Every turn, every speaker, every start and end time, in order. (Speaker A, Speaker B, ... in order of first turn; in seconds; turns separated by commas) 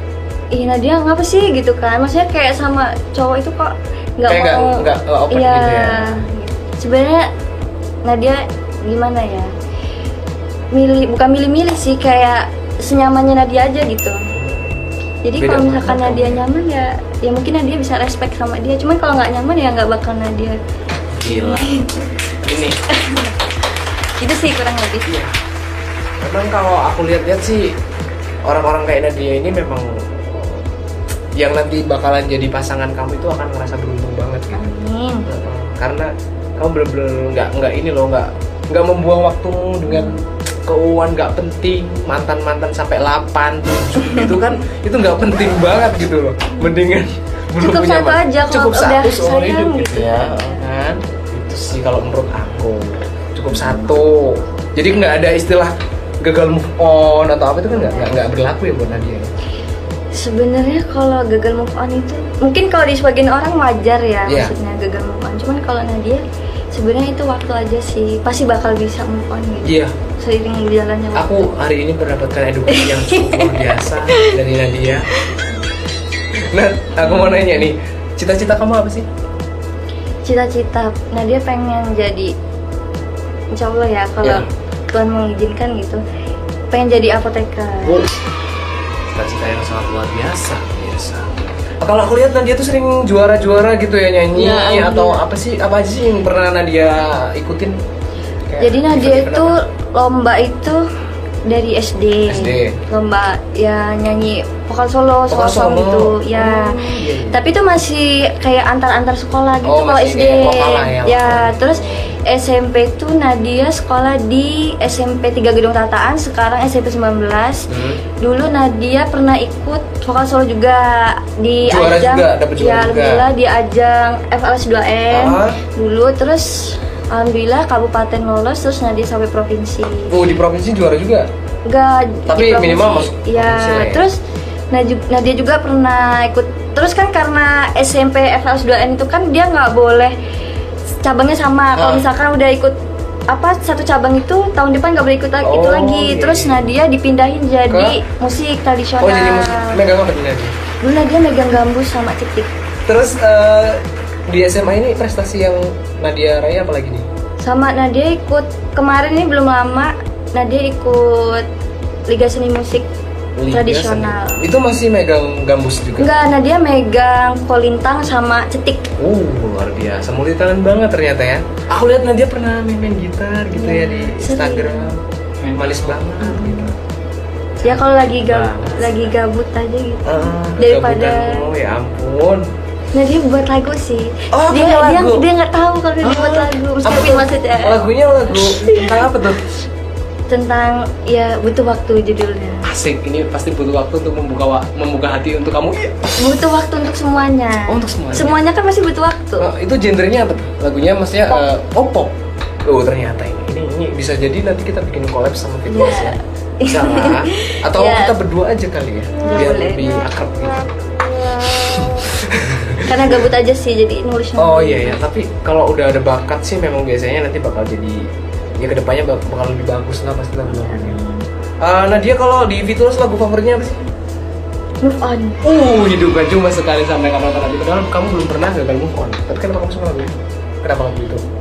Speaker A: 0.5-7.3, Speaker B: 4.3-6.2, Speaker A: 8.1-9.5, Speaker A: 10.7-14.3, Speaker B: 14.3-14.8, Speaker A: 15.2-20.6, Speaker B: 15.4-16.4, Speaker B: 21.1-21.8, Speaker A: 21.2-22.3, Speaker B: 22.4-22.8, Speaker A: 22.9-23.5, Speaker A: 24.2-25.2, Speaker B: 25.1-25.3, Speaker B: 26.2-27.8, Speaker B: 28.4-30.7, Speaker B: 31.4-34.6, Speaker A: 34.5-35.3, Speaker B: 35.3-59.3, Speaker A: 39.9-40.2, Speaker A: 44.0-44.3, Speaker A: 47.6-50.6, Speaker A: 53.5-54.0, Speaker A: 57.7-58.1, Speaker A: 60.1-66.2, Speaker B: 64.3-64.5, Speaker A: 66.7-71.5, Speaker B: 69.7-69.9, Speaker B: 71.2-75.1, Speaker A: 72.7-74.4, Speaker A: 75.1-75.4, Speaker B: 76.5-79.1, Speaker A: 77.0-77.6, Speaker A: 80.2-82.3, Speaker A: 83.5-86.0, Speaker B: 84.2-84.5, Speaker A: 86.7-88.1, Speaker B: 89.1-97.8, Speaker A: 94.3-95.2, Speaker B: 98.5-99.6, Speaker A: 98.6-100.8, Speaker A: 101.5-117.7, Speaker B: 102.3-102.8, Speaker B: 105.3-107.5, Speaker B: 109.6-112.1, Speaker B: 117.7-118.0, Speaker A: 118.2-130.2, Speaker B: 121.7-123.3, Speaker B: 125.1-125.6, Speaker B: 130.1-131.3, Speaker A: 131.7-134.2, Speaker B: 132.3-134.1, Speaker A: 134.7-140.2, Speaker A: 141.0-142.8, Speaker B: 141.8-142.1, Speaker A: 143.3-149.8, Speaker B: 145.4-146.7, Speaker B: 147.7-148.0, Speaker B: 149.0-150.6, Speaker A: 150.8-152.5, Speaker B: 152.9-157.1, Speaker A: 157.4-161.5, Speaker A: 162.1-162.9, Speaker B: 163.4-166.1, Speaker A: 163.5-164.4, Speaker A: 166.0-168.8, Speaker B: 169.0-175.0, Speaker A: 173.5-174.9, Speaker B: 175.5-176.7, Speaker A: 176.2-176.7, Speaker B: 177.6-178.9, Speaker A: 177.6-181.5, Speaker B: 180.1-182.4, Speaker A: 182.9-187.8, Speaker B: 184.3-185.3, Speaker B: 186.0-189.5, Speaker A: 188.3-189.2, Speaker A: 190.3-192.7, Speaker B: 192.7-196.0, Speaker A: 196.2-199.5, Speaker B: 197.7-198.4, Speaker B: 199.4-202.1, Speaker B: 202.7-213.2, Speaker A: 205.7-208.1, Speaker A: 209.2-210.0, Speaker A: 212.8-215.0, Speaker B: 214.4-218.0, Speaker B: 218.6-221.0, Speaker A: 220.5-221.2, Speaker B: 221.6-223.8, Speaker A: 224.8-225.4, Speaker B: 225.4-230.1, Speaker B: 230.6-231.2